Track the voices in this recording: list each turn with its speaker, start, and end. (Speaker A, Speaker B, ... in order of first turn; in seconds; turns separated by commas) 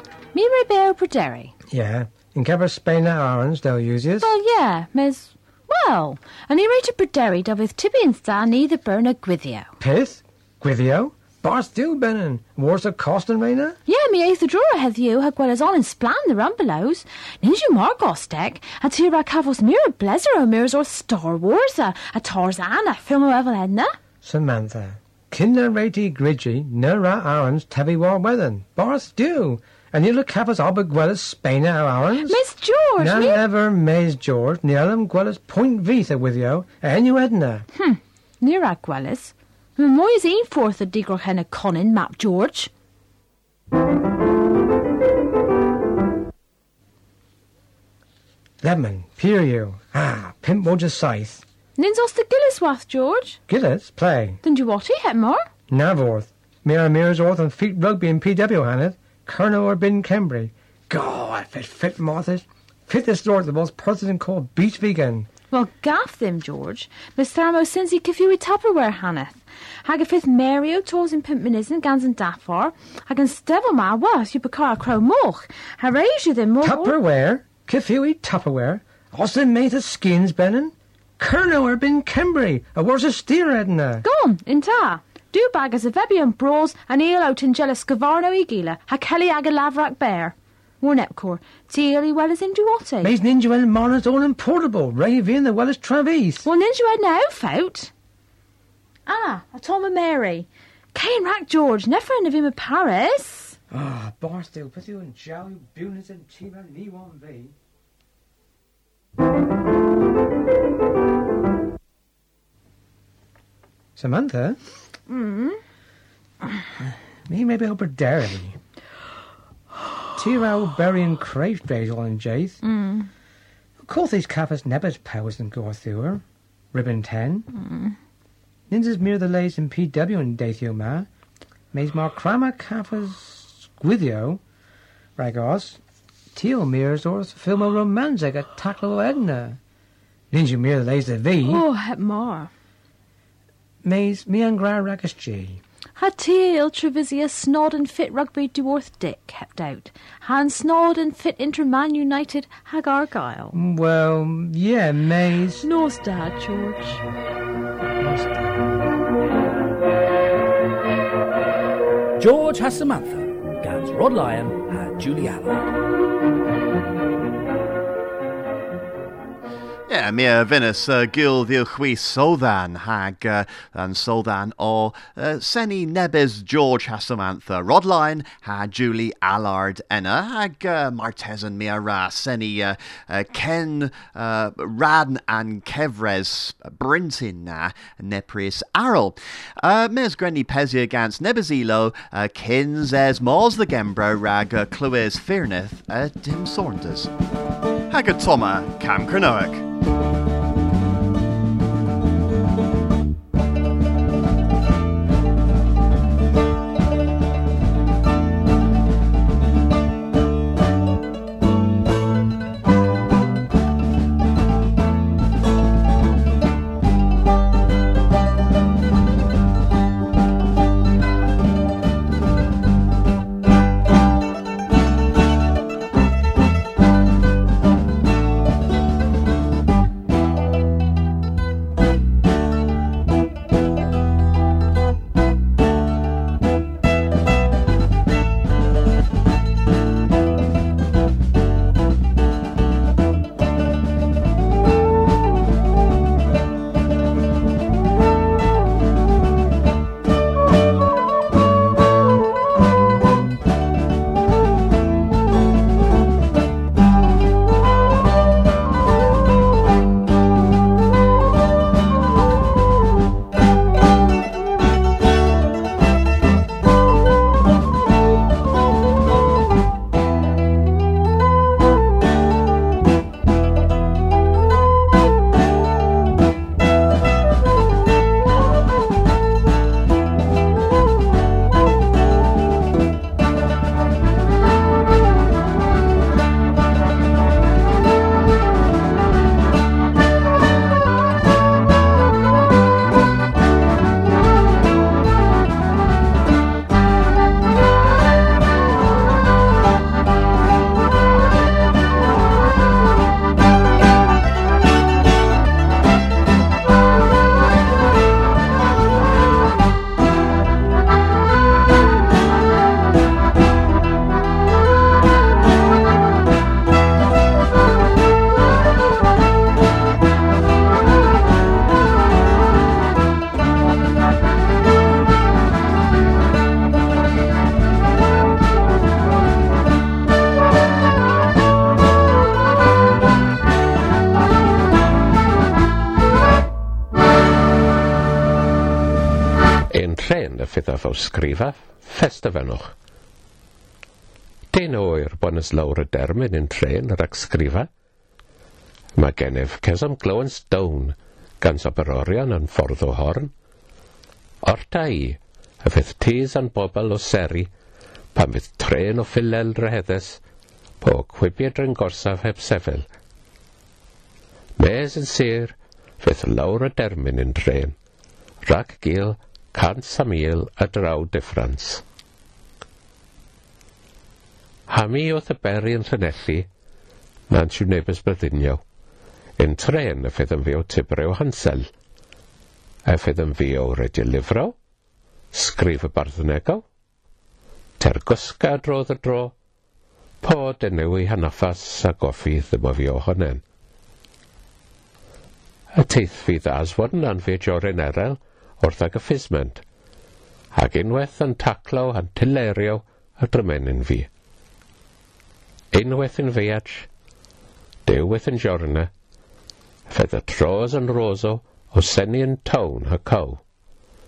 Speaker A: 0.3-1.5, Speaker B: 1.7-4.3, Speaker A: 4.2-9.7, Speaker B: 9.8-13.8, Speaker A: 13.9-23.9, Speaker B: 24.2-32.4, Speaker A: 32.2-33.4, Speaker B: 33.0-37.6, Speaker A: 37.7-42.7, Speaker B: 48.6-51.4, Speaker A: 51.8-53.4, Speaker B: 53.5-54.4, Speaker A: 54.4-55.5, Speaker B: 55.7-65.3, Speaker A: 65.5-77.0, Speaker B: 76.6-84.0, Speaker A: 84.0-93.1, Speaker B: 93.0-96.5, Speaker A: 96.4-97.9, Speaker A: 99.0-103.6, Speaker B: 103.7-107.5, Speaker B: 114.0-114.6, Speaker A: 115.1-115.6, Speaker B: 116.8-118.6, Speaker B: 120.2-122.6, Speaker A: 122.6-123.1, Speaker B: 123.8-127.5, Speaker A: 127.5-128.0, Speaker B: 128.7-131.1, Speaker B: 131.7-134.4, Speaker B: 135.2-135.8, Speaker B: 136.3-139.6, Speaker B: 140.3-141.6, Speaker A: 141.4-142.5, Speaker B: 143.8-145.6, Speaker A: 146.0-153.6, Speaker B: 153.5-155.7, Speaker A: 155.6-157.0, Speaker C: 162.2-165.7, Speaker D: 169.9-197.1, Speaker D: 197.9-199.6, Speaker E: 339.7-342.7, Speaker E: 344.5-347.7, Speaker E: 348.9-353.3, Speaker E: 354.4-357.5, Speaker E: 358.1-360.2, Speaker E: 360.8-362.9, Speaker E: 364.6-367.7, Speaker E: 368.4-371.8, Speaker E: 374.7-376.5, Speaker E: 377.3-378.6, Speaker E: 379.4-381.7, Speaker E: 382.9-384.6, Speaker E: 385.3-386.6, Speaker E: 387.8-389.3, Speaker E: 390.2-393.4, Speaker E: 395.8-399.6, Speaker E: 400.5-404.1, Speaker E: 405.7-406.9, Speaker E: 407.9-408.9, Speaker E: 409.9-413.4